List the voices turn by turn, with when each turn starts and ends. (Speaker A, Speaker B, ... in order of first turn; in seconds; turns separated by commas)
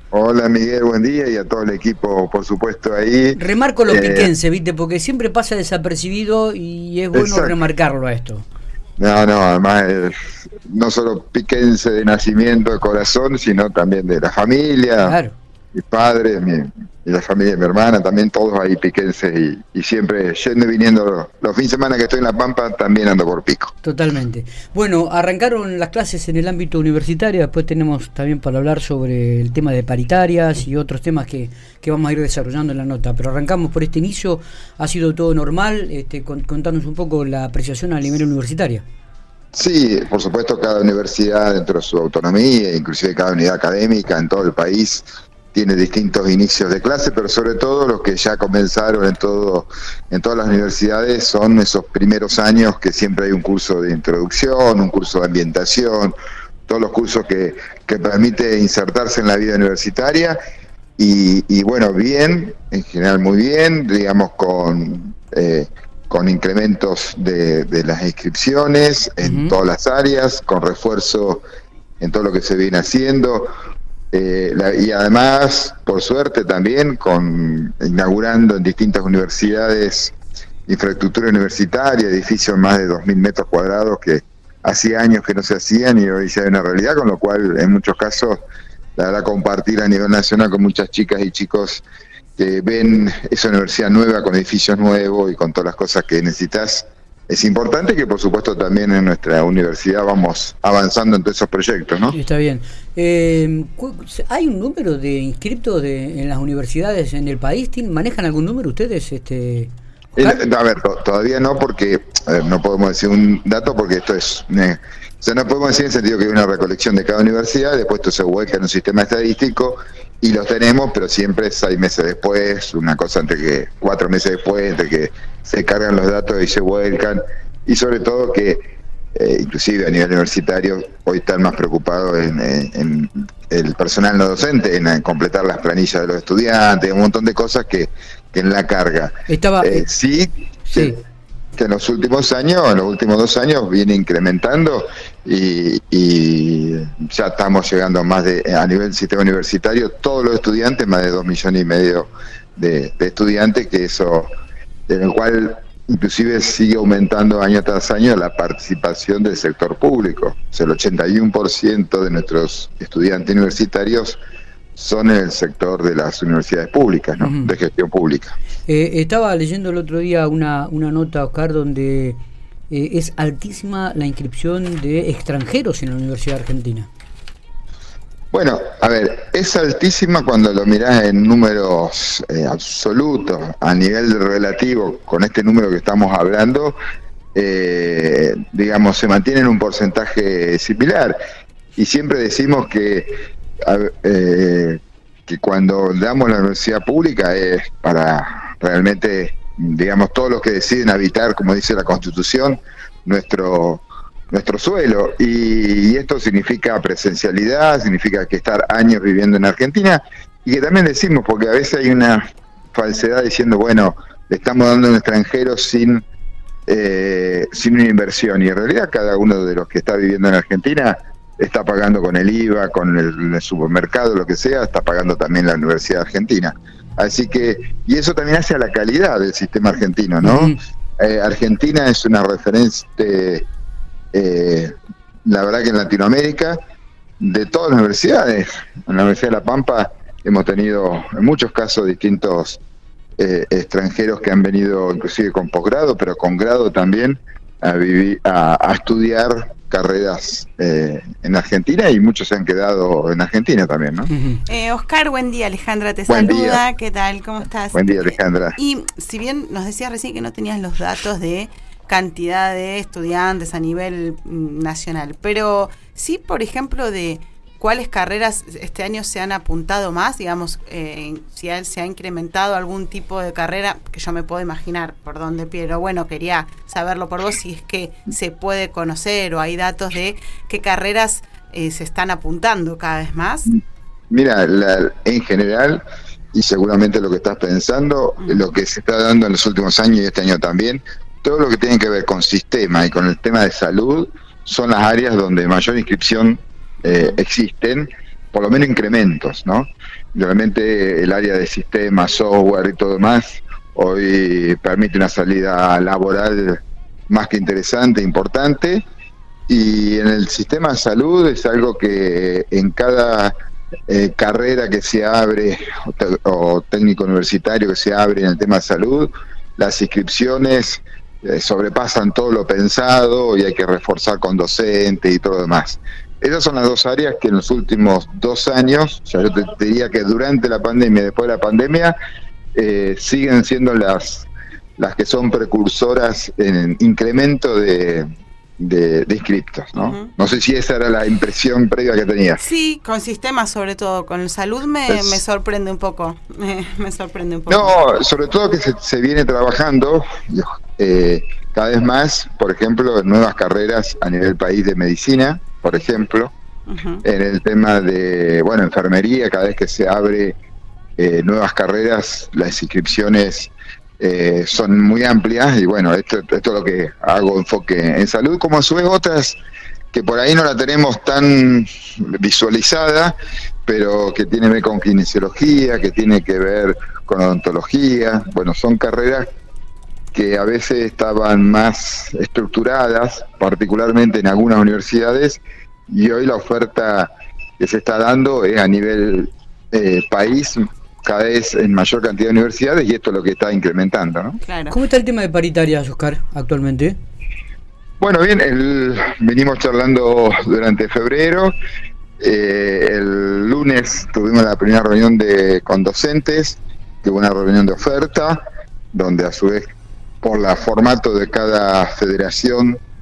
Speaker A: 0.1-4.3, Speaker B: 3.4-8.4, Speaker A: 7.1-7.6, Speaker A: 9.0-15.2, Speaker B: 15.0-15.3, Speaker A: 15.7-23.7, Speaker B: 23.8-38.8, Speaker A: 39.5-56.2, Speaker A: 56.7-60.4, Speaker A: 61.0-71.4, Speaker B: 69.2-69.6, Speaker A: 72.0-73.5, Speaker A: 74.1-80.1, Speaker A: 80.7-88.4, Speaker A: 89.0-91.8, Speaker A: 92.4-102.2, Speaker B: 102.1-110.4, Speaker A: 110.2-141.0, Speaker B: 139.3-139.8, Speaker B: 140.7-140.9, Speaker A: 141.6-154.3, Speaker A: 154.9-164.2, Speaker A: 164.8-168.4, Speaker B: 167.2-167.5, Speaker B: 168.7-176.9, Speaker A: 178.3-186.8, Speaker A: 187.3-191.2, Speaker A: 191.8-216.0, Speaker A: 216.7-233.4, Speaker B: 230.2-230.6, Speaker A: 234.1-234.8, Speaker A: 235.3-236.6, Speaker A: 237.2-242.6, Speaker A: 243.2-254.1, Speaker B: 254.1-254.4, Speaker C: 254.5-283.5, Speaker A: 256.1-256.6, Speaker A: 257.7-258.6, Speaker A: 283.5-285.8, Speaker A: 286.3-308.8, Speaker A: 309.5-313.3, Speaker A: 313.9-331.9, Speaker A: 332.6-338.1, Speaker A: 338.6-342.4, Speaker C: 339.8-340.1, Speaker C: 342.4-347.8, Speaker A: 344.9-345.2, Speaker A: 347.5-356.3, Speaker C: 356.7-357.0, Speaker A: 357.0-360.4, Speaker A: 361.0-369.4, Speaker A: 369.9-379.3, Speaker A: 380.1-394.4, Speaker C: 394.4-394.8, Speaker B: 394.7-397.0, Speaker A: 398.0-401.5, Speaker A: 402.2-409.7, Speaker A: 410.2-412.8